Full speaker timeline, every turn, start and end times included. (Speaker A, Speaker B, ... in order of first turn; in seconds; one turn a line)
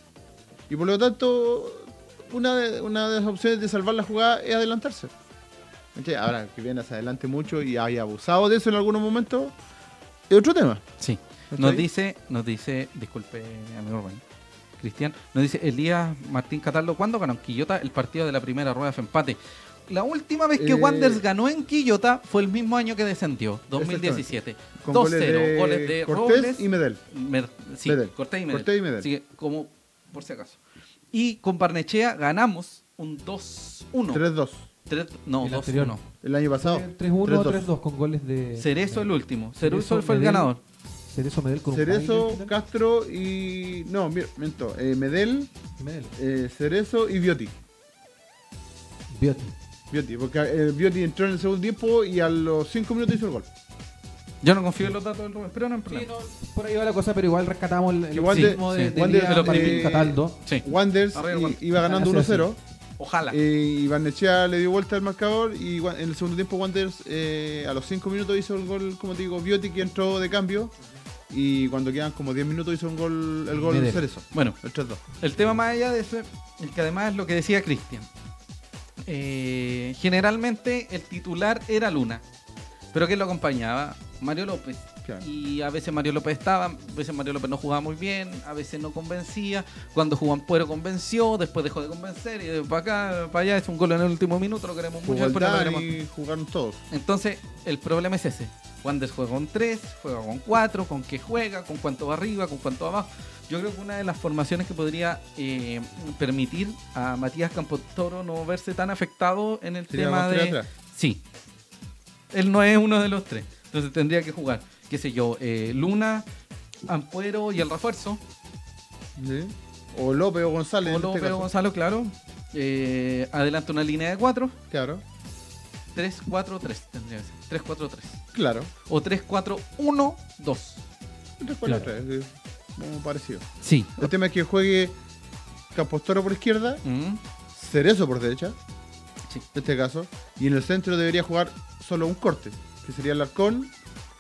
Speaker A: 0.7-5.1
Speaker A: 6.0-9.5
Speaker A: 10.3-10.8
Speaker B: 11.0-14.2
Speaker A: 11.5-11.9
Speaker B: 14.8-30.6
Speaker A: 20.6-21.2
Speaker A: 23.7-27.0
Speaker A: 27.9-29.1
Speaker B: 31.1-34.2
Speaker A: 34.1-34.7
Speaker B: 34.9-36.0
Speaker C: 35.4-36.0
Speaker A: 36.2-37.7
Speaker C: 36.6-40.5
Speaker B: 38.6-40.6
Speaker C: 41.1-42.5
Speaker A: 41.7-45.5
Speaker C: 45.8-46.1
Speaker A: 46.2-47.5
Speaker C: 49.1-49.5
Speaker A: 49.9-53.5
Speaker B: 54.4-56.1
Speaker C: 55.9-60.4
Speaker A: 58.1-62.6
Speaker B: 58.3-61.6
Speaker C: 61.7-62.5
Speaker B: 63.0-63.4
Speaker A: 63.3-70.7
Speaker A: 71.3-75.0
Speaker C: 73.5-74.1
Speaker B: 74.3-78.1
Speaker B: 79.1-82.2
Speaker B: 82.9-95.9
Speaker A: 95.0-96.8
Speaker B: 96.9-111.2
Speaker A: 109.9-110.7
Speaker B: 112.3-116.3
Speaker B: 116.9-118.2
Speaker A: 119.2-121.5
Speaker B: 120.8-124.5
Speaker A: 124.7-125.0
Speaker B: 126.0-128.2
Speaker A: 128.3-128.7
Speaker B: 128.9-130.8
Speaker A: 131.4-133.5
Speaker C: 131.7-131.9
Speaker B: 133.6-134.1
Speaker A: 134.0-135.0
Speaker A: 135.7-136.8
Speaker B: 136.8-137.2
Speaker A: 137.5-138.6
Speaker A: 139.5-143.7